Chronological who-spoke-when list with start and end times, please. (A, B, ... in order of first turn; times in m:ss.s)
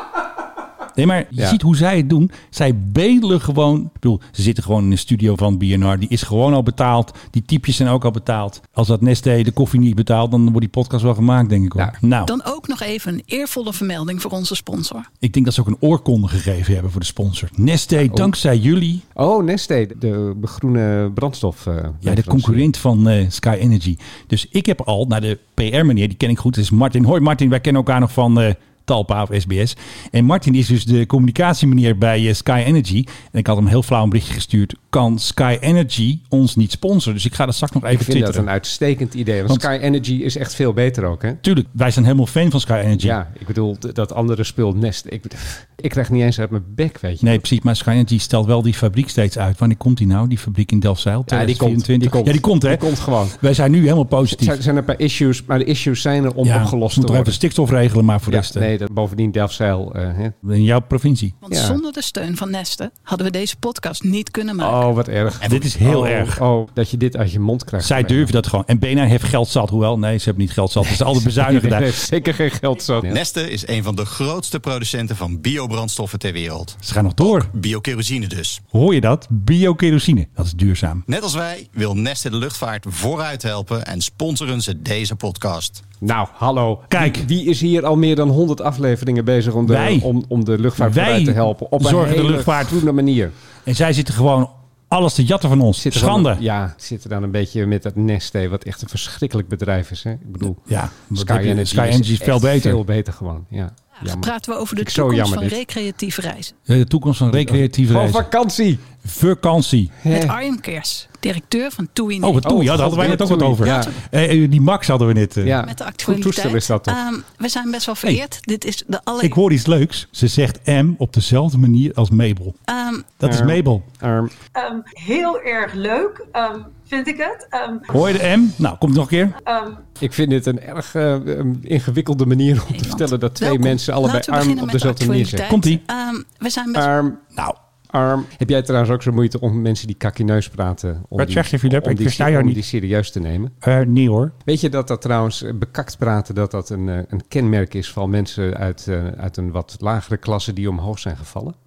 0:01.0-0:12.3 A
0:12.2-0:15.1 B
0:15.2-0:19.0 A
0:19.2-0:22.7 C
0:22.0-0:38.5 A
0:37.8-0:41.4 C
0:41.4-0:43.2 A
0:43.0-0:47.4 C
0:47.2-0:54.6 A
0:51.3-0:53.4 C
0:54.3-0:57.4 C
0:56.4-0:58.7 A
0:58.3-1:00.4 C
1:00.4-1:01.4 A
1:01.4-1:04.9 B
1:01.5-1:01.8 C
1:04.6-1:08.3 C
1:05.4-1:06.4 A
1:07.8-1:12.0 A
1:10.8-1:13.2 C
1:13.1-1:18.6 D
1:16.8-1:17.5 A
1:18.7-1:21.0 A
1:21.1-1:25.8 D
1:26.0-1:33.3 C
1:26.9-1:27.3 A
1:29.7-1:30.1 A
1:30.8-1:32.9 A
1:33.7-1:36.4 A
1:35.8-1:40.6 C
1:40.7-1:42.8 A
1:41.1-1:45.6 C
1:44.0-1:46.5 B
1:46.7-1:48.3 A
1:47.3-1:48.8 C
1:49.0-1:50.0 A
1:50.0-1:50.4 C
1:50.1-1:53.1 B
1:52.2-1:55.6 A
1:52.4-1:53.9 C
1:53.6-1:54.0 B
1:55.4-1:57.0 C
1:55.6-1:59.4 B
1:59.2-2:02.6 A
2:02.7-2:03.1 B
2:03.2-2:03.9 A
2:03.2-2:04.3 C
2:04.6-2:07.9 E
2:07.9-2:09.4 A
2:09.4-2:09.8 E
2:10.0-2:15.4 C
2:12.7-2:16.9 B
2:15.5-2:15.8 A
2:16.8-2:17.2 C
2:17.9-2:23.5 C
2:21.2-2:22.6 A
2:23.6-2:24.3 A
2:24.4-2:31.6 C